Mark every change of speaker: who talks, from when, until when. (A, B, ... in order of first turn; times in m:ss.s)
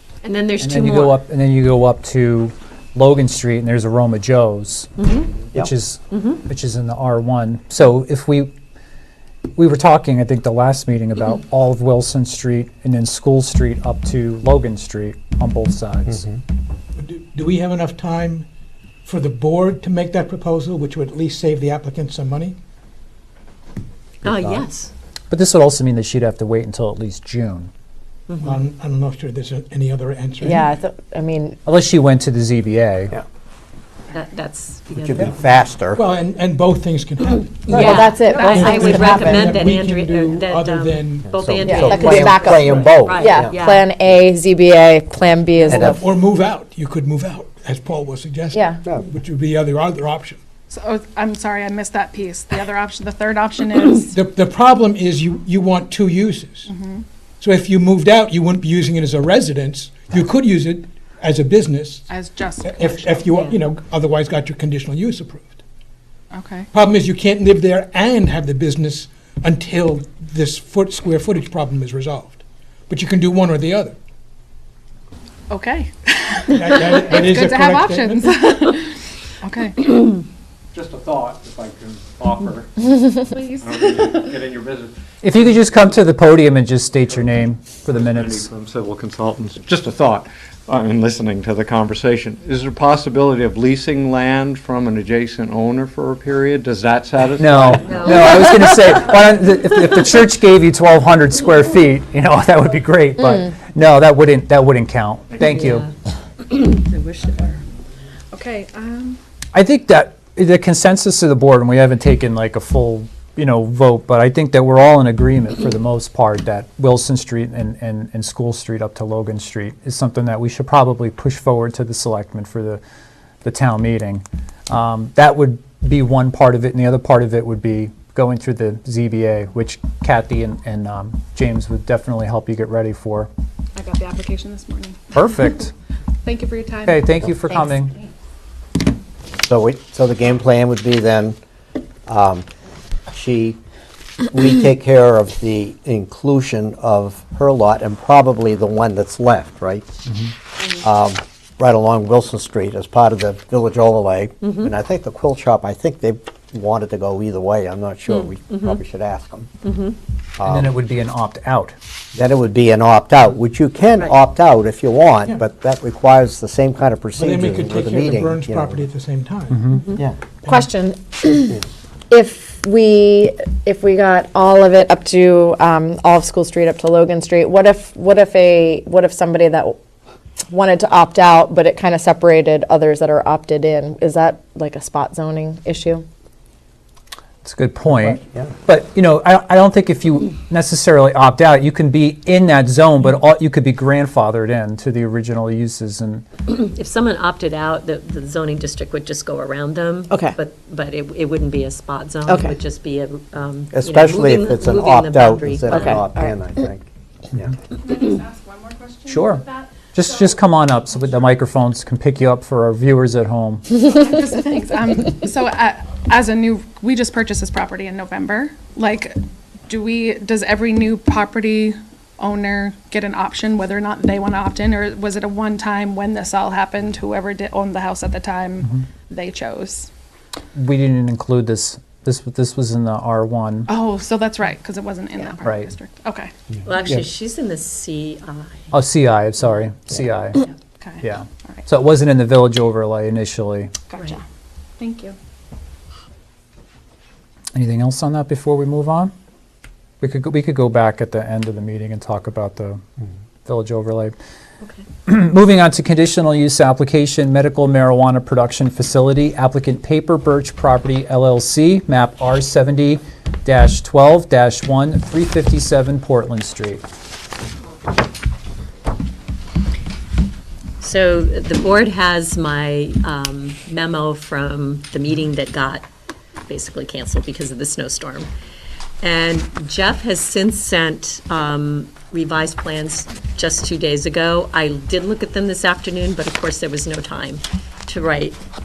0:00.2-0:01.2 A
0:00.6-0:04.9 B
0:05.0-0:05.3 A
0:05.6-0:08.5 B
0:06.1-0:06.4 A
0:09.6-0:16.3 B
0:17.0-0:18.5 C
0:19.0-0:22.6 C
0:24.2-0:24.6 D
0:24.2-0:24.9 A
0:25.3-0:27.7 B
0:28.3-0:28.5 A
0:28.4-0:30.7 C
0:30.4-0:31.6 E
0:31.7-0:33.2 B
0:34.1-0:35.5 A
0:35.0-0:36.0 D
0:35.9-0:37.9 C
0:37.7-0:43.9 A
0:37.7-0:39.4 E
0:38.5-0:42.9 C
0:41.3-0:43.6 D
0:41.6-0:46.0 E
0:45.7-0:46.0 D
0:45.8-0:50.4 C
0:48.5-0:48.8 E
0:50.7-0:54.2 F
0:54.1-0:56.7 C
0:56.7-0:57.0 F
0:57.4-1:02.1 C
1:02.1-1:03.4 F
1:02.6-1:05.6 C
1:06.3-1:06.7 F
1:06.7-1:14.0 C
1:15.5-1:19.8 F
1:16.5-1:18.4 C
1:20.7-1:25.5 G
1:23.3-1:24.3 F
1:25.2-1:28.5 B
1:27.9-1:38.5 G
1:37.4-1:45.8 B
1:37.7-1:38.9 A
1:45.4-1:45.9 A
1:46.5-1:47.6 A
1:48.3-1:49.2 F
1:49.5-2:02.8 B
2:03.4-2:13.3 B
2:13.8-2:15.2 F
2:15.1-2:15.7 B
2:16.2-2:17.1 F
2:16.8-2:17.9 B
2:19.4-2:21.4 D
2:22.1-2:22.5 D
2:23.1-2:23.6 D
2:24.3-2:29.9 D
2:30.7-2:39.5 D
2:34.4-2:34.7 A
2:38.1-2:38.8 A
2:39.6-2:40.0 A
2:40.4-2:40.7 D
2:40.4-2:41.8 B
2:42.2-2:48.9 D
2:47.2-2:49.7 C
2:49.6-2:49.9 B
2:49.8-2:50.0 A
2:50.4-2:50.7 C
2:50.5-2:59.8 E
3:00.5-3:06.0 E
3:07.4-3:16.3 B
3:07.9-3:08.5 D
3:16.5-3:26.0 A
3:20.1-3:20.4 E
3:22.3-3:22.6 E
3:23.7-3:26.8 D
3:25.7-3:26.4 E
3:27.7-3:30.3 F
3:29.1-3:33.8 B
3:33.8-3:49.9 F
3:50.6-3:53.7 B
3:53.7-3:56.3 F
3:55.4-3:55.7 B
3:56.6-3:58.7 A
3:58.7-4:00.4 B
4:00.8-4:01.6 F
4:01.0-4:03.7 B
4:03.9-4:04.2 F
4:04.8-4:05.2 F
4:07.5-4:09.1 B
4:10.0-4:12.8 B
4:13.4-4:14.2 B
4:15.1-4:26.8 B
4:30.8-4:35.9 A
4:36.5-4:38.3 A
4:39.0-4:48.4 A